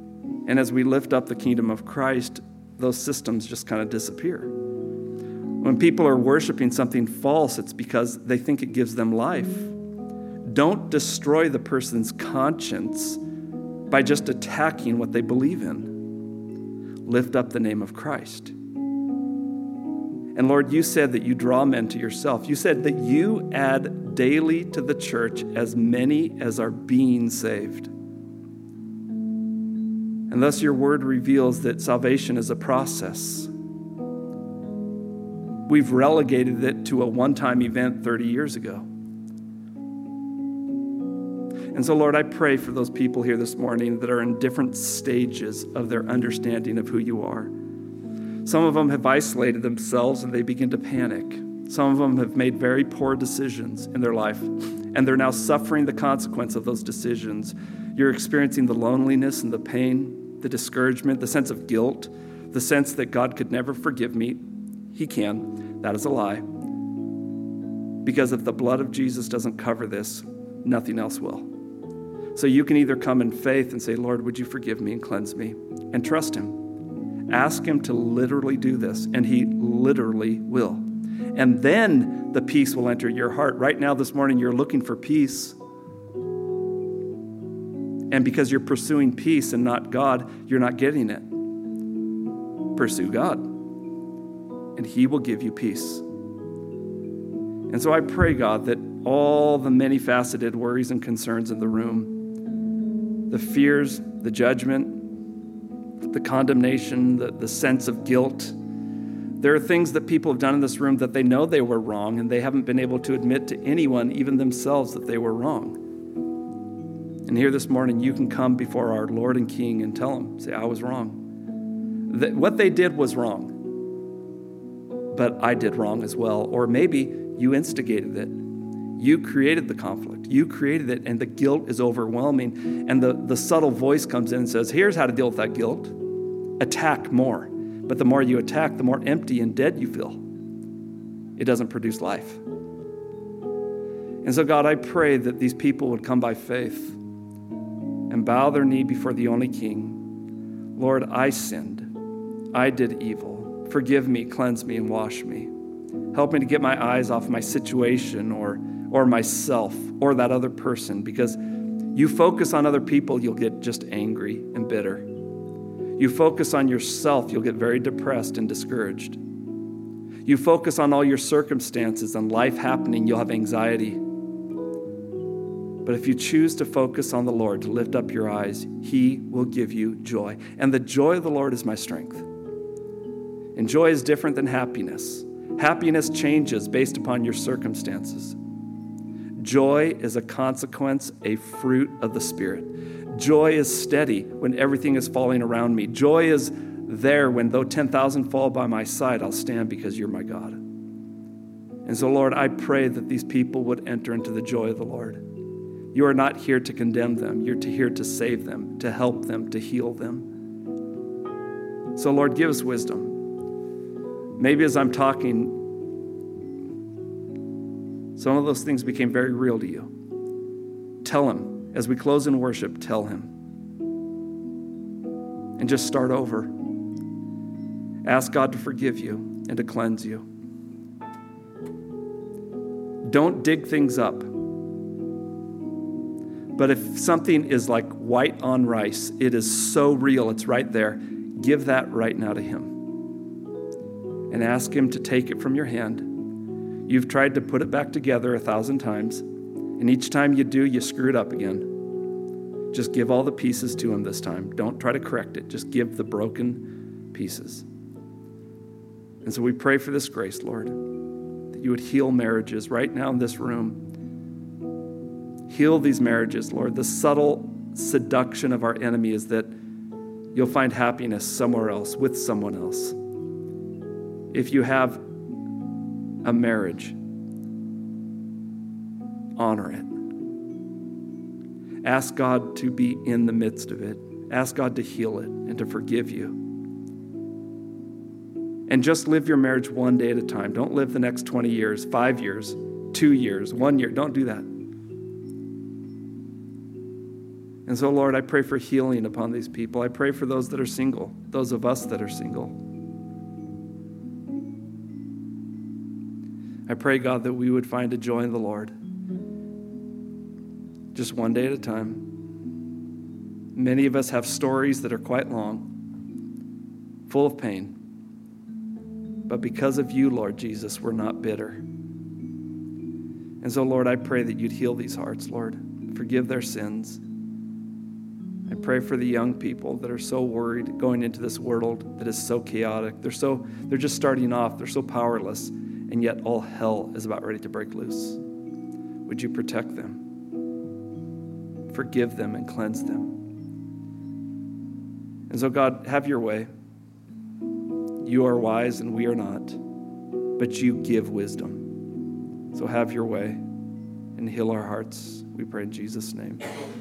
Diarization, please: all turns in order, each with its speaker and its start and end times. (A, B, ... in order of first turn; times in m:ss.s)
0:00.4-0:04.5 A
0:05.6-0:09.7 A
0:10.4-0:13.2 A
0:13.9-0:16.1 A
0:17.0-0:18.5 A
0:20.3-0:27.9 A
0:30.3-0:33.5 A
0:35.7-0:38.9 A
0:41.7-0:47.5 A
0:48.4-1:06.5 A
1:08.0-1:11.5 A
1:12.3-1:16.7 A
1:17.3-1:25.6 A
1:28.1-1:31.3 A
1:32.7-1:33.5 A
1:34.7-1:36.0 A
1:37.7-1:42.2 A
1:43.3-1:45.1 A
1:46.1-1:48.6 A
1:49.4-1:55.8 A
1:57.3-2:01.2 A
2:02.1-2:03.7 A
2:05.1-2:08.3 A
2:09.0-2:16.0 A
2:16.6-2:20.2 A
2:21.4-2:22.4 A
2:24.2-2:27.0 A
2:28.1-2:30.0 A
2:30.8-2:31.9 A
2:32.5-2:35.5 A
2:36.1-2:41.4 A
2:41.9-2:45.1 A
2:46.0-2:49.2 A
2:50.2-2:54.0 A
2:55.8-3:02.2 A
3:03.5-3:08.4 A
3:09.4-3:20.6 A
3:21.8-3:25.2 A
3:25.9-3:30.3 A
3:31.9-3:33.2 A
3:34.4-3:35.7 A
3:38.1-3:39.9 A
3:41.0-3:43.3 A
3:45.6-3:46.5 A
3:48.0-3:50.2 A
3:53.0-3:54.3 A
3:56.5-4:02.8 A
4:04.3-4:06.2 A
4:06.9-4:09.2 A
4:09.8-4:11.8 A
4:12.7-4:17.7 A
4:19.2-4:20.8 A
4:21.5-4:23.8 A
4:25.5-4:29.5 A
4:30.3-4:33.0 A
4:34.3-4:35.0 A
4:36.2-4:37.0 A
4:39.4-4:39.9 A
4:41.8-4:46.4 A
4:48.7-4:54.5 A
4:57.6-5:02.6 A
5:06.7-5:08.7 A
5:10.9-5:12.1 A
5:13.5-5:15.7 A
5:17.1-5:17.8 A
5:19.3-5:21.6 A
5:23.4-5:27.0 A
5:28.5-5:38.2 A
5:39.0-5:40.0 A
5:41.7-5:43.2 A
5:45.3-5:46.5 A
5:48.0-5:49.6 A
5:50.4-5:51.7 A
5:52.5-5:53.4 A
5:54.2-5:56.4 A